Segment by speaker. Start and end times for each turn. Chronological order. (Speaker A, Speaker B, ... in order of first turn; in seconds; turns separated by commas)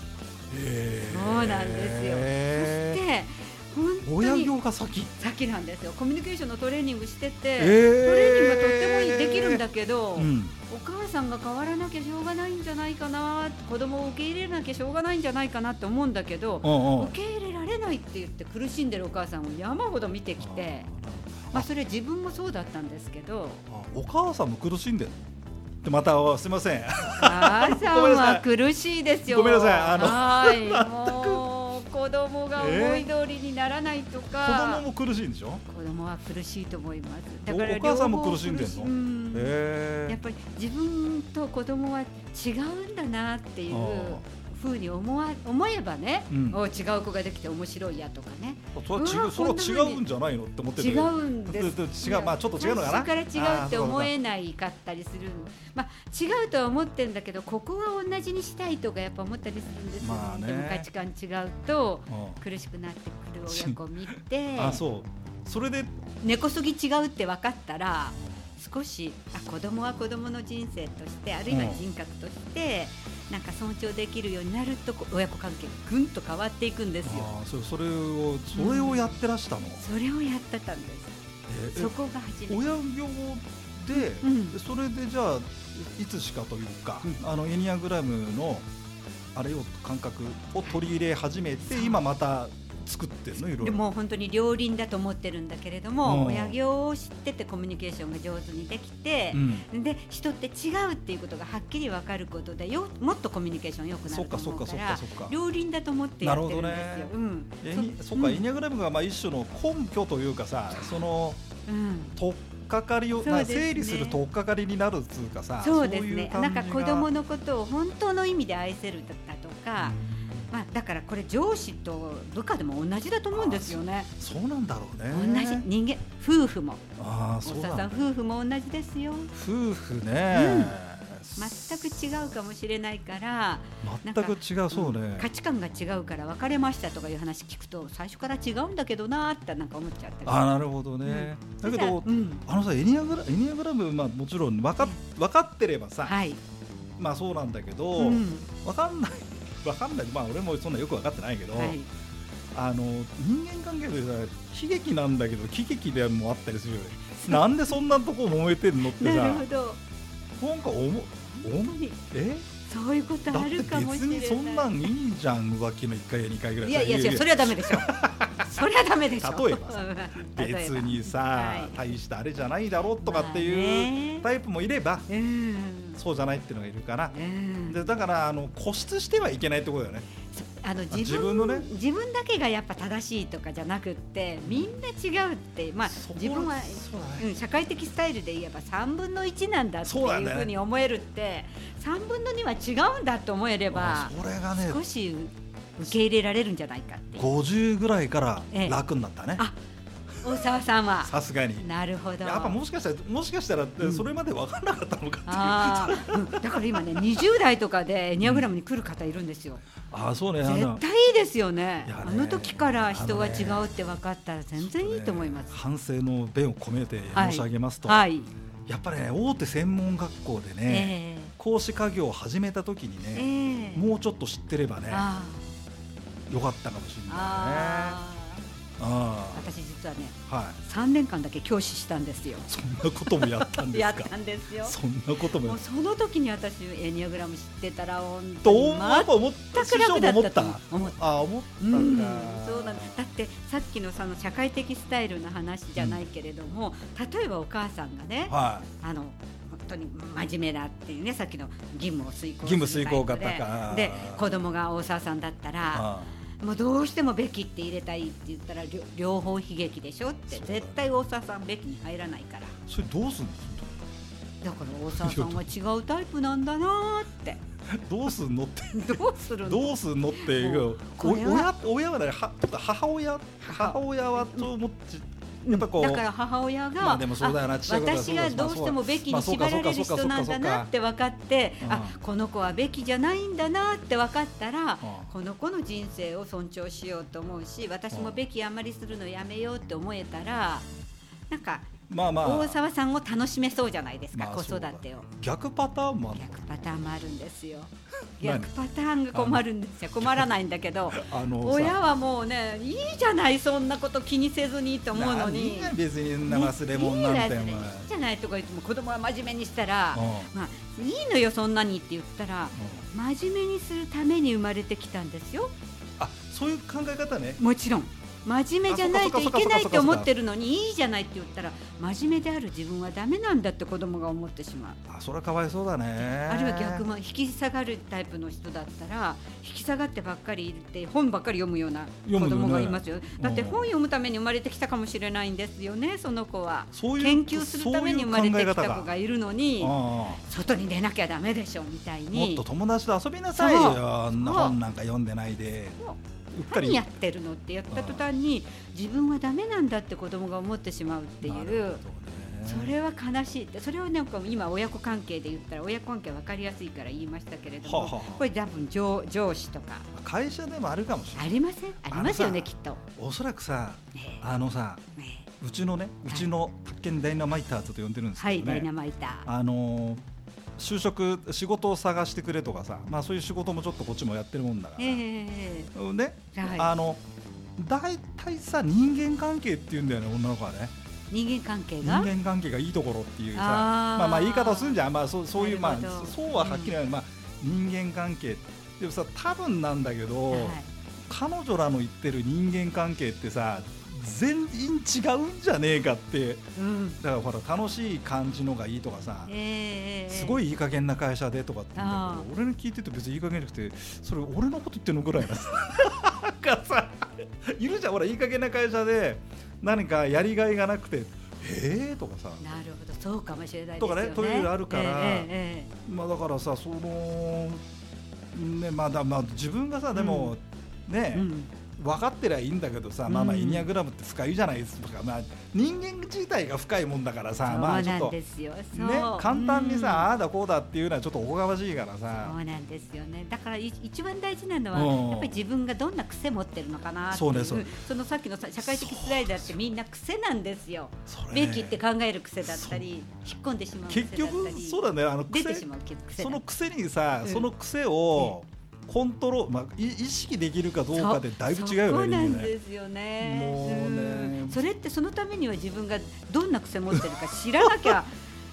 Speaker A: 0.5-3.0, Speaker B: 1.1-4.5, Speaker A: 4.0-5.1, Speaker B: 5.2-20.9, Speaker A: 7.6-9.6, Speaker A: 10.2-10.5, Speaker A: 16.6-17.1, Speaker A: 20.4-21.7, Speaker B: 21.5-23.6, Speaker A: 23.7-25.2, Speaker A: 25.8-28.4, Speaker B: 27.1-34.8, Speaker A: 29.2-31.4, Speaker A: 32.5-33.1, Speaker A: 34.4-35.6, Speaker B: 35.6-50.0, Speaker A: 37.5-40.2, Speaker A: 43.7-44.2, Speaker A: 46.3-46.6, Speaker A: 48.7-54.1, Speaker B: 50.8-64.8, Speaker A: 60.0-60.9, Speaker A: 62.1-62.4, Speaker A: 63.5-63.8, Speaker A: 64.5-65.9, Speaker B: 66.2-77.3, Speaker A: 71.5-71.8, Speaker A: 77.0-79.8, Speaker B: 78.5-79.0, Speaker B: 79.8-81.1, Speaker A: 81.5-81.9, Speaker B: 81.7-82.6, Speaker A: 82.5-88.7, Speaker B: 83.9-84.6, Speaker A: 89.3-93.8, Speaker B: 91.7-92.0, Speaker B: 93.4-108.4, Speaker A: 96.0-96.6, Speaker A: 99.3-99.7, Speaker A: 104.1-105.3, Speaker A: 106.2-111.4, Speaker B: 110.7-111.0, Speaker B: 111.7-112.1, Speaker A: 112.2-117.1, Speaker B: 113.1-114.2, Speaker B: 115.6-120.0, Speaker A: 119.8-120.5, Speaker B: 120.5-124.1, Speaker A: 123.3-125.7, Speaker B: 125.1-126.8, Speaker A: 127.0-127.9, Speaker B: 127.4-129.3, Speaker A: 129.3-131.8, Speaker B: 130.3-130.7, Speaker B: 131.3-142.4, Speaker A: 133.8-135.3, Speaker A: 140.2-146.2, Speaker B: 146.0-146.4, Speaker A: 147.0-151.8, Speaker B: 148.0-148.5, Speaker B: 151.5-151.9, Speaker A: 152.5-159.4, Speaker B: 157.1-157.8, Speaker B: 158.9-159.8, Speaker A: 160.4-162.5, Speaker B: 161.3-162.0, Speaker B: 162.7-164.8, Speaker A: 163.3-175.1, Speaker B: 166.6-171.9, Speaker B: 173.0-174.2, Speaker B: 175.1-176.0, Speaker A: 175.9-177.1, Speaker B: 177.1-177.9, Speaker A: 177.7-180.1, Speaker B: 180.3-197.3, Speaker A: 180.9-181.7, Speaker A: 185.9-187.3, Speaker A: 189.8-190.5, Speaker A: 193.7-194.8, Speaker A: 197.1-199.4, Speaker B: 198.5-198.8, Speaker B: 200.2-202.6, Speaker A: 201.0-201.7, Speaker A: 202.2-207.2, Speaker B: 203.8-204.1, Speaker B: 205.3-209.6, Speaker A: 208.2-208.5, Speaker A: 209.9-210.8, Speaker B: 210.4-215.6, Speaker A: 211.8-213.7, Speaker A: 214.6-218.1, Speaker B: 217.1-218.3, Speaker A: 218.7-225.1, Speaker B: 220.7-221.3, Speaker B: 223.1-223.8, Speaker B: 224.9-225.4, Speaker A: 226.3-228.0, Speaker B: 227.1-228.4, Speaker A: 228.8-229.4, Speaker B: 229.3-232.5, Speaker A: 230.3-230.6, Speaker A: 232.5-235.6, Speaker B: 233.0-241.0, Speaker A: 238.4-243.0, Speaker B: 241.6-262.5, Speaker A: 248.3-248.7, Speaker A: 252.4-254.4, Speaker A: 255.7-256.1, Speaker A: 260.3-260.8, Speaker A: 262.7-263.8, Speaker B: 264.4-267.4, Speaker A: 264.9-265.5, Speaker A: 267.7-276.1, Speaker B: 268.7-271.5, Speaker B: 273.4-274.5, Speaker B: 275.4-290.7, Speaker A: 276.8-280.7, Speaker A: 281.6-281.9, Speaker A: 284.8-285.1, Speaker A: 287.9-288.2, Speaker B: 291.3-295.1, Speaker A: 291.9-292.6, Speaker A: 294.1-296.4, Speaker B: 296.1-315.5, Speaker A: 298.2-298.5, Speaker A: 299.1-299.4, Speaker A: 300.0-300.3, Speaker A: 300.9-301.8, Speaker A: 304.9-307.9, Speaker A: 309.9-310.3, Speaker A: 312.6-312.9, Speaker A: 316.0-317.4, Speaker B: 317.4-324.8, Speaker A: 318.7-320.1, Speaker A: 324.9-326.9, Speaker B: 326.2-342.4, Speaker A: 332.0-333.7, Speaker A: 336.7-338.9, Speaker A: 339.6-340.2, Speaker A: 342.1-345.8, Speaker B: 343.3-344.6, Speaker B: 345.8-351.8, Speaker A: 346.3-346.8, Speaker A: 347.7-348.1, Speaker A: 351.2-352.7, Speaker B: 352.4-359.9, Speaker A: 357.6-358.3, Speaker A: 359.9-364.8, Speaker B: 361.1-362.8, Speaker B: 363.9-364.2, Speaker B: 365.0-365.3, Speaker A: 365.4-368.7, Speaker B: 368.2-369.2, Speaker A: 369.2-370.0, Speaker A: 370.6-375.0, Speaker B: 374.8-375.7, Speaker A: 375.7-377.0, Speaker B: 376.3-376.7, Speaker A: 377.6-380.7, Speaker B: 381.1-382.1, Speaker A: 381.8-396.5, Speaker B: 383.3-384.8, Speaker B: 385.3-386.8, Speaker B: 390.3-390.7, Speaker B: 396.6-397.0, Speaker A: 397.0-399.3, Speaker B: 399.2-400.4, Speaker A: 400.1-412.4, Speaker B: 401.8-402.2, Speaker B: 412.4-415.7, Speaker A: 413.8-415.3, Speaker A: 415.8-417.6, Speaker A: 418.3-428.2, Speaker B: 419.9-420.3, Speaker B: 421.1-421.5, Speaker B: 423.1-423.7, Speaker B: 427.4-430.1, Speaker A: 428.7-432.4, Speaker B: 432.2-446.4, Speaker A: 434.7-435.4, Speaker A: 437.1-437.7, Speaker A: 438.6-439.6, Speaker A: 441.1-441.8, Speaker A: 442.4-442.8, Speaker A: 443.9-452.5, Speaker B: 450.9-458.1, Speaker A: 453.2-454.6, Speaker A: 456.9-457.9